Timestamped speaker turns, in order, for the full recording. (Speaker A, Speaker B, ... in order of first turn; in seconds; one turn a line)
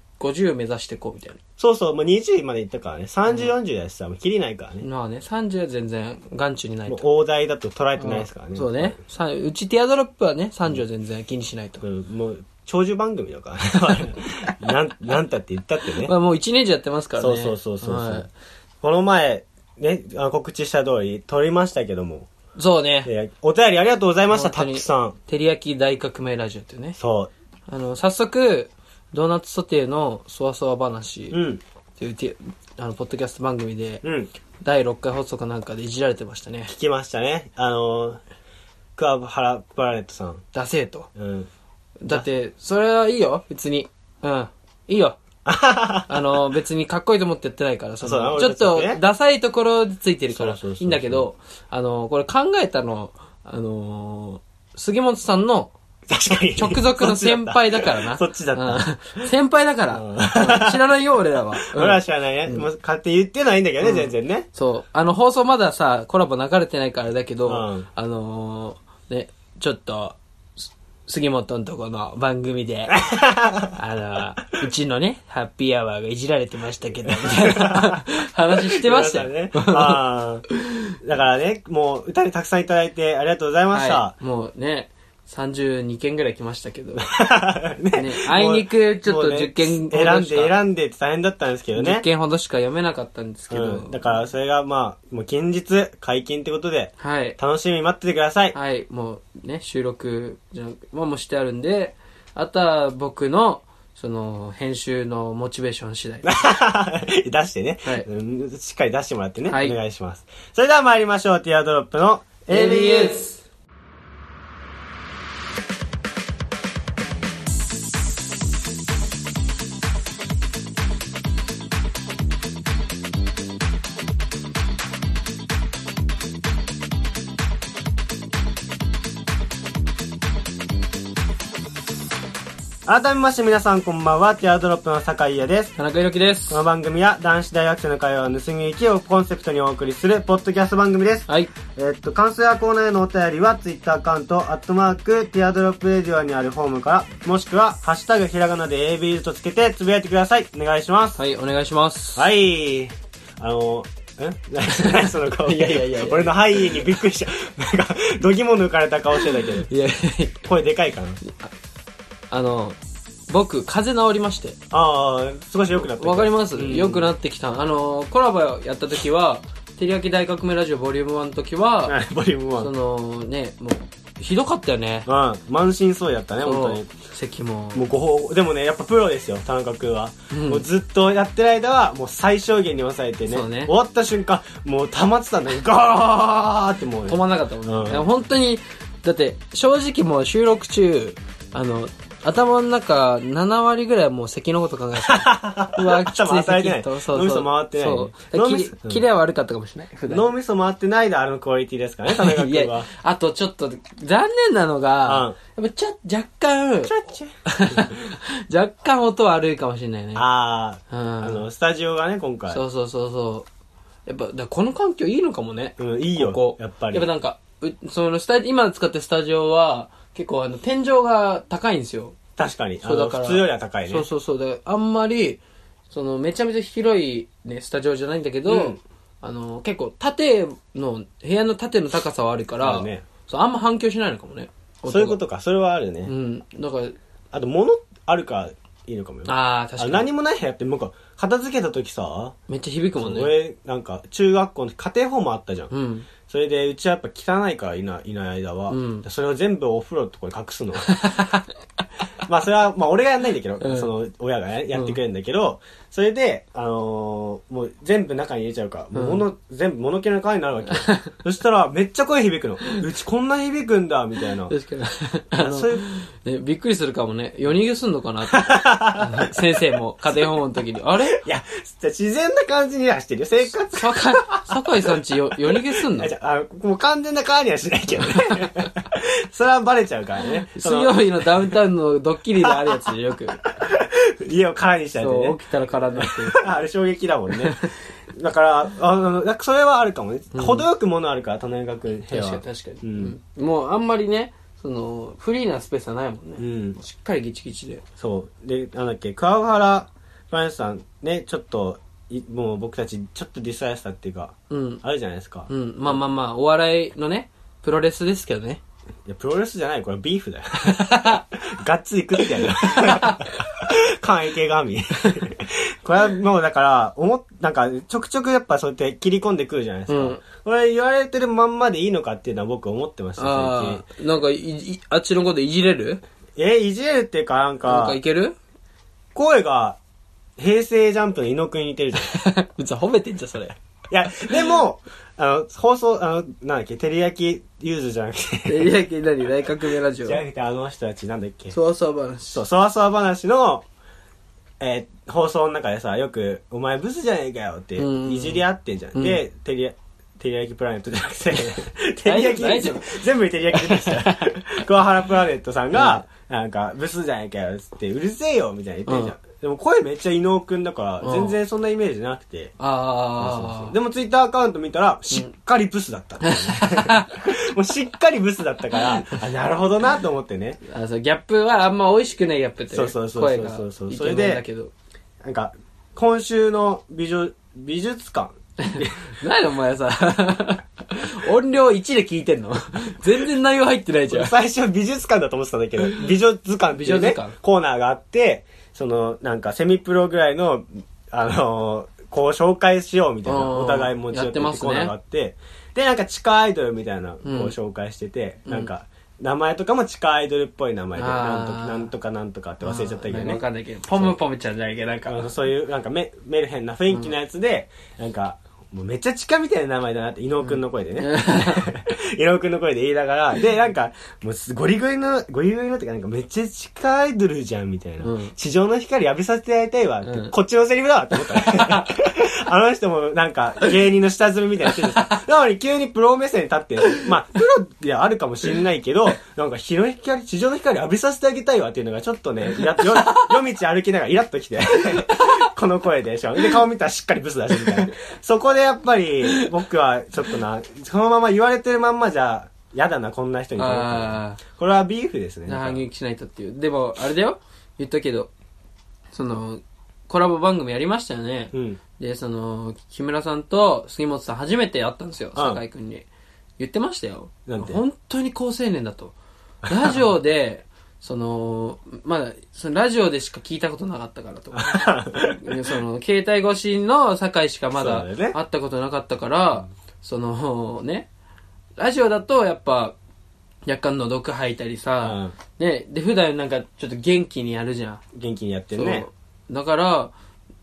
Speaker A: 0.2-1.4
Speaker B: 1.6-4.9
Speaker A: 4.8-7.0
Speaker B: 6.9-9.0
Speaker A: 8.0-11.8
Speaker B: 11.8-16.1
Speaker A: 13.8-14.2
Speaker A: 16.0-18.3
Speaker B: 17.2-18.3
Speaker B: 18.8-22.3
Speaker A: 22.6-23.1
Speaker B: 23.1-25.2
Speaker A: 24.3-27.0
Speaker B: 27.0-27.3
Speaker A: 27.7-31.4
Speaker B: 31.3-31.6
Speaker A: 32.0-34.0
Speaker B: 34.0-34.3
Speaker A: 34.6-36.7
Speaker B: 36.7-38.2
Speaker B: 39.0-40.4
Speaker A: 40.5-41.1
Speaker B: 41.1-41.5
Speaker A: 42.0-45.2
Speaker B: 45.5-46.4
Speaker A: 46.1-55.7
Speaker B: 48.0-49.0
Speaker B: 50.3-51.3
Speaker B: 56.1-59.3
Speaker A: 56.6-62.7
Speaker B: 59.9-60.9
Speaker B: 61.6-64.5
Speaker A: 63.8-70.2
Speaker B: 67.5-67.9
Speaker A: 71.1-72.9
Speaker B: 72.9-73.8
Speaker A: 73.7-80.9
Speaker B: 77.1-80.5
Speaker B: 81.0-84.1
Speaker A: 83.7-87.0
Speaker B: 87.0-92.0
Speaker A: 87.9-90.5
Speaker A: 91.8-94.1
Speaker B: 93.5-98.6
Speaker A: 97.0-97.4
Speaker A: 98.5-106.3
Speaker B: 106.2-113.2
Speaker A: 109.5-109.8
Speaker A: 112.5-113.5
Speaker B: 132.9-135.8
Speaker A: 135.8-136.6
Speaker B: 136.5-151.2
Speaker A: 141.3-141.5
Speaker A: 151.2-152.3
Speaker B: 152.2-159.7
Speaker A: 154.7-157.0
Speaker A: 159.2-160.4
Speaker B: 160.4-161.2
Speaker A: 161.2-161.5
Speaker A: 162.3-162.8
Speaker A: 163.3-164.6
Speaker B: 164.7-167.1
Speaker A: 165.8-172.0
Speaker B: 171.9-172.7
Speaker A: 172.6-175.1
Speaker B: 175.1-176.9
Speaker A: 176.4-177.9
Speaker B: 177.7-188.1
Speaker A: 180.3-180.7
Speaker A: 183.3-183.7
Speaker A: 187.1-200.3
Speaker B: 195.1-199.1
Speaker B: 200.1-202.9
Speaker A: 202.1-206.9
Speaker B: 205.1-205.4
Speaker B: 206.8-208.1
Speaker A: 207.5-210.2
Speaker B: 210.2-212.6
Speaker A: 210.9-211.5
Speaker A: 212.5-213.5
Speaker A: 214.1-222.2
Speaker B: 215.8-217.1
Speaker B: 222.4-224.1
Speaker A: 222.8-235.2
Speaker B: 228.5-228.8
Speaker B: 232.6-233.1
Speaker B: 234.9-236.1
Speaker A: 236.1-237.0
Speaker B: 237.3-242.4
Speaker A: 239.3-240.1
Speaker A: 242.5-243.3
Speaker B: 243.0-245.7
Speaker A: 245.7-246.1
Speaker B: 246.2-251.1
Speaker A: 248.7-249.1
Speaker A: 250.9-251.5
Speaker B: 252.2-264.5
Speaker A: 253.6-253.9
Speaker A: 254.7-255.0
Speaker A: 258.9-259.2
Speaker A: 260.7-261.1
Speaker A: 264.5-271.2
Speaker B: 265.4-265.8
Speaker B: 268.3-270.3
Speaker B: 271.1-274.9
Speaker A: 273.7-276.1
Speaker B: 275.5-281.5
Speaker A: 278.0-278.5
Speaker A: 280.5-283.4
Speaker B: 282.4-282.9
Speaker B: 283.4-285.4
Speaker A: 285.0-286.5
Speaker B: 286.0-293.2
Speaker A: 287.4-287.7
Speaker A: 290.3-290.7
Speaker A: 292.1-297.8
Speaker B: 296.4-296.8
Speaker B: 298.0-305.5
Speaker A: 304.5-304.8
Speaker A: 305.5-308.6
Speaker B: 309.1-323.9
Speaker A: 310.6-311.2
Speaker A: 312.3-313.3
Speaker A: 319.9-320.2
Speaker A: 323.2-326.0
Speaker B: 326.4-328.0
Speaker A: 327.7-328.4
Speaker B: 329.1-329.8
Speaker B: 330.4-332.2
Speaker A: 332.0-333.6
Speaker B: 333.9-338.7
Speaker A: 334.2-334.5
Speaker A: 338.5-340.2
Speaker B: 340.0-341.6
Speaker A: 341.5-342.4
Speaker B: 342.3-343.7
Speaker B: 344.6-362.5
Speaker A: 347.8-348.4
Speaker A: 348.9-349.2
Speaker A: 352.1-353.0
Speaker A: 353.5-354.3
Speaker A: 355.7-356.0
Speaker A: 358.9-359.1
Speaker A: 361.0-361.4
Speaker A: 362.6-363.8
Speaker B: 363.2-370.6
Speaker A: 366.2-367.1
Speaker A: 370.7-374.7
Speaker B: 372.7-374.4
Speaker B: 375.2-379.1
Speaker A: 378.6-384.3
Speaker B: 384.1-403.4
Speaker A: 386.8-387.4
Speaker A: 393.2-394.9
Speaker A: 397.2-397.5
Speaker A: 401.0-401.9
Speaker A: 402.6-405.3
Speaker B: 405.1-445.8
Speaker A: 410.4-411.7
Speaker A: 418.0-418.3
Speaker A: 420.0-420.3
Speaker A: 421.3-421.9
Speaker A: 432.8-433.3
Speaker A: 435.0-435.4
Speaker A: 437.6-437.9
Speaker A: 443.6-444.4
Speaker A: 445.5-448.3
Speaker A: 449.1-456.1
Speaker B: 451.5-451.8
Speaker B: 455.4-455.6
Speaker A: 456.6-459.1
Speaker B: 457.5-457.8
Speaker A: 459.7-471.1
Speaker B: 464.5-465.8
Speaker B: 467.7-468.4
Speaker A: 471.8-473.0
Speaker A: 473.6-478.0
Speaker B: 475.0-475.4
Speaker B: 478.1-479.1
Speaker A: 478.8-480.1